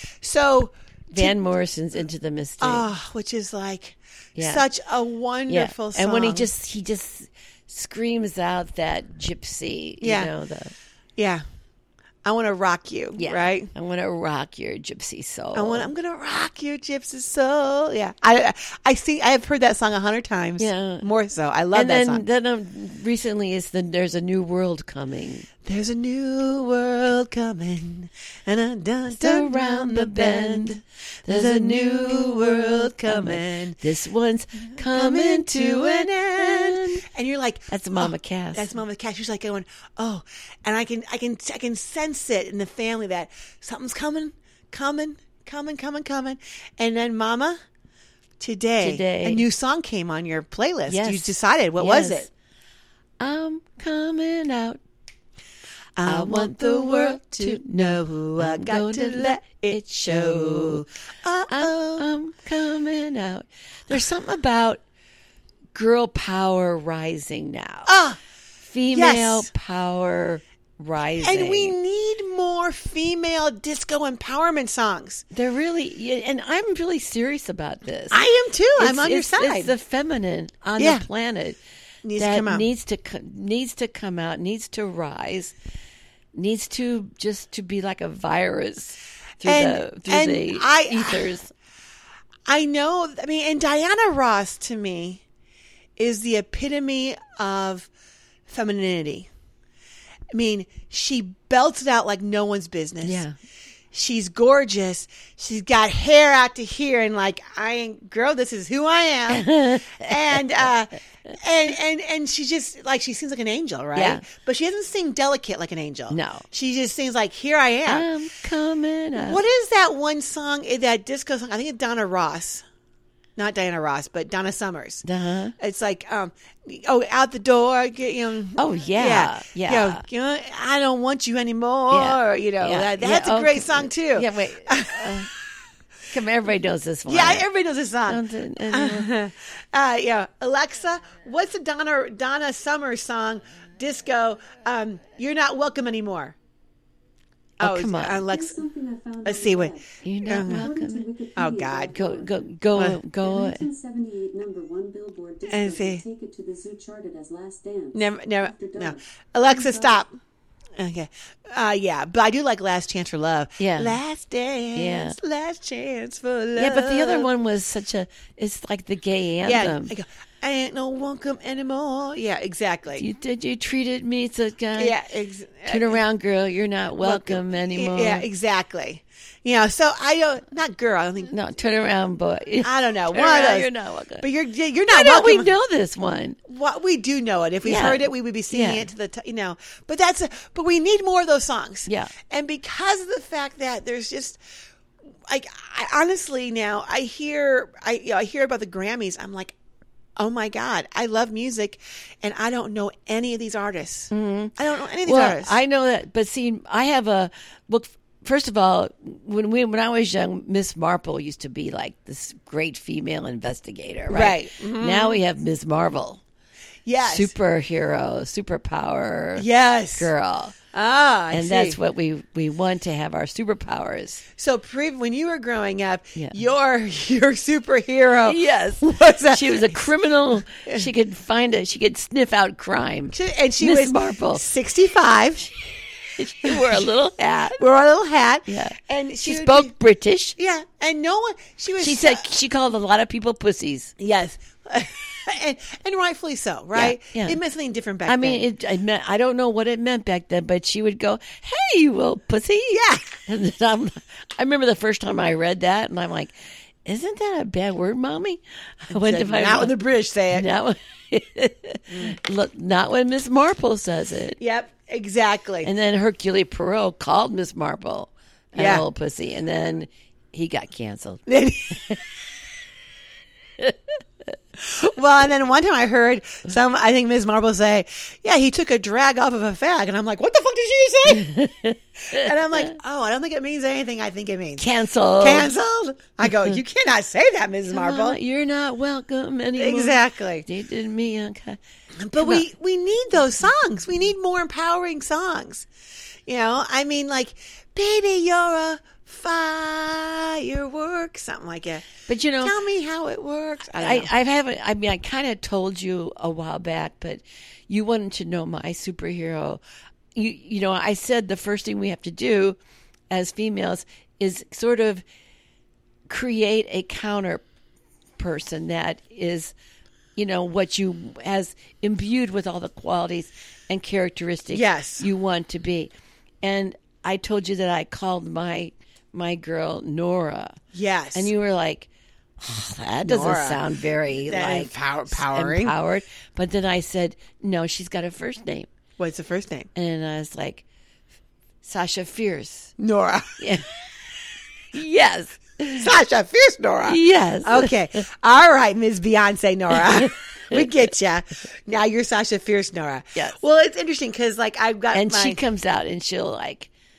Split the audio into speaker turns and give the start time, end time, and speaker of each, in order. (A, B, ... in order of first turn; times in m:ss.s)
0:00.2-0:01.4 A
0:01.2-0:02.9 B
0:02.6-0:06.5 A
0:04.4-0:04.6 B
0:05.5-0:10.7 B
0:10.0-0:10.3 A
0:11.2-0:11.4 A
0:12.2-0:13.7 A
0:13.2-0:15.9 B
0:15.5-0:22.2 A
0:20.6-0:21.1 B
0:21.7-0:25.5 B
0:25.6-0:33.8 A
0:29.1-0:37.0 B
0:34.8-0:47.6 A
0:37.7-0:38.7 B
0:48.4-0:52.3 A
0:48.8-0:49.4 B
0:50.9-0:52.3 B
0:53.2-0:54.8 B
0:56.0-1:02.1 A
0:56.0-1:00.8 B
1:01.5-1:04.8 B
1:05.7-1:07.9 B
1:07.9-1:08.2 A
1:08.7-1:11.8 B
1:08.9-1:09.5 A
1:11.2-1:15.2 A
1:15.3-1:18.2 B
1:18.1-1:19.7 A
1:18.8-1:21.6 B
1:20.8-1:21.0 A
1:22.0-1:22.7 A
1:22.2-1:25.6 B
1:26.4-1:31.5 B
1:29.4-1:31.3 A
1:32.5-1:35.2 A
1:36.0-1:37.9 A
1:38.5-1:39.3 A
1:40.3-1:43.2 A
1:43.0-1:43.4 B
1:43.9-1:58.1 A
1:49.3-1:50.6 B
1:54.0-1:54.3 B
1:56.1-1:56.4 B
1:57.9-1:59.4 B
1:59.2-2:02.6 A
2:03.4-2:05.0 A
2:05.0-2:05.6 B
2:05.6-2:15.2 A
2:08.6-2:10.0 B
2:11.9-2:15.3 B
2:16.1-2:17.5 B
2:17.1-2:26.4 A
2:18.1-2:19.1 B
2:27.6-2:28.6 A
2:27.6-2:28.2 B
2:28.3-2:32.4 C
2:29.2-2:30.7 A
2:30.0-2:31.1 B
2:31.4-2:32.0 A
2:31.9-2:33.6 B
2:33.2-2:40.0 C
2:35.5-2:36.0 A
2:37.9-2:40.1 A
2:40.8-2:47.3 A
2:43.6-2:44.0 B
2:44.8-2:45.2 B
2:46.6-2:49.9 B
2:49.4-2:53.0 A
2:53.0-2:55.0 B
2:54.8-2:56.0 A
2:55.7-2:58.2 B
2:57.0-3:01.3 A
3:01.3-3:04.3 B
3:02.6-3:05.5 A
3:04.9-3:06.4 B
3:06.5-3:14.4 A
3:07.6-3:08.9 B
3:11.9-3:12.1 B
3:15.3-3:19.6 A
3:20.2-3:25.6 A
3:24.1-3:36.2 B
3:34.1-3:35.2 A
3:36.9-3:37.3 A
3:37.0-3:40.6 B
3:39.4-3:40.1 A
3:40.7-3:41.8 A
3:41.3-3:44.2 B
3:44.4-3:49.9 A
3:46.2-3:46.4 B
3:48.3-3:54.5 B
3:50.6-3:50.9 A
3:53.1-3:55.5 A
3:56.2-3:57.6 B
3:56.4-3:56.8 A
3:57.6-3:59.7 A
3:58.5-4:00.4 B
4:00.4-4:02.3 A
4:01.8-4:03.9 B
4:04.0-4:08.5 A
4:06.7-4:07.4 B
4:08.1-4:16.3 B
4:12.7-4:13.1 A
4:16.8-4:19.8 B
4:18.9-4:20.5 A
4:20.3-4:24.4 B
4:21.9-4:22.2 A
4:24.4-4:25.7 A
4:25.6-4:31.3 B
4:28.6-4:28.8 A
4:31.3-4:31.9 A
4:34.6-4:41.3 A
4:41.1-4:42.7 B
4:42.1-4:44.7 A
4:44.6-4:45.5 B
4:45.2-4:48.2 A
4:47.7-4:51.6 B
4:49.6-4:50.5 A
4:52.0-4:55.7 A
4:52.2-4:52.4 B
4:56.3-5:01.9 A
5:02.1-5:02.6 B
5:02.4-5:04.1 A
5:03.8-5:09.6 B
5:10.2-5:12.6 B
5:13.1-5:15.0 B
5:16.1-5:17.4 B
5:18.2-5:19.5 B
5:20.2-5:25.9 B
5:24.5-5:25.1 A
5:26.4-5:30.6 B
5:30.7-5:31.3 A
5:31.1-5:31.9 B
5:32.4-5:38.7 B
5:33.0-5:33.6 A
5:34.3-5:35.8 A
5:39.0-5:39.7 A
5:39.8-5:40.6 B
5:41.6-5:42.7 B
5:42.8-5:43.4 A
5:43.4-5:43.7 B
5:44.7-5:45.9 B
5:45.7-5:55.4 A
5:46.9-5:47.8 B
5:50.0-5:50.7 B
5:54.9-5:56.7 B